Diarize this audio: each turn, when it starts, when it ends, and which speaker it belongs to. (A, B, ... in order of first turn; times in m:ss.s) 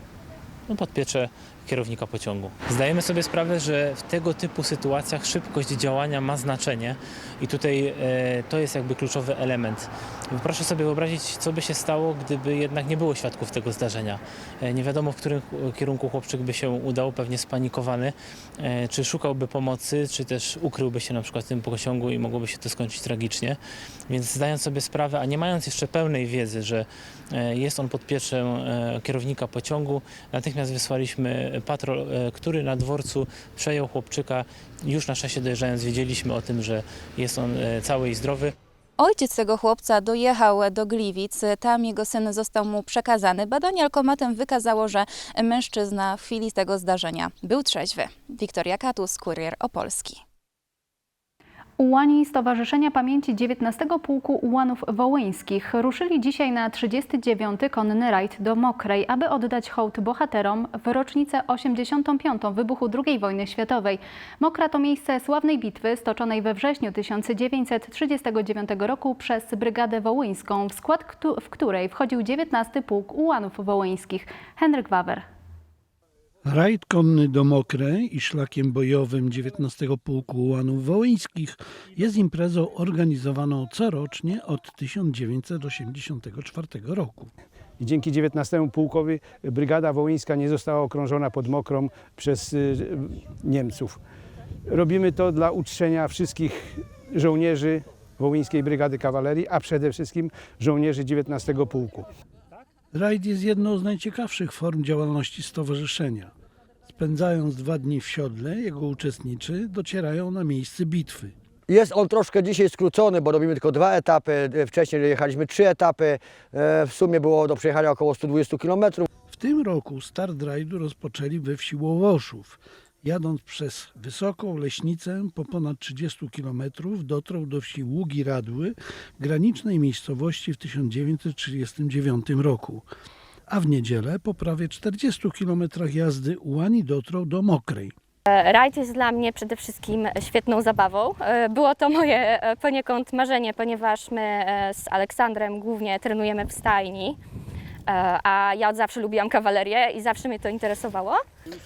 0:00.7-0:38.5 A
0:39.0-0:50.2 B
0:51.8-1:15.2 C
1:16.4-1:27.3 D
1:27.8-1:34.0 E
1:34.7-1:42.0 E
1:42.9-1:46.3 D
1:46.9-1:51.3 D
1:51.7-1:59.0 F
1:59.3-2:12.8 D
2:13.5-2:17.9 D
2:18.3-2:27.2 G
2:27.9-2:31.2 G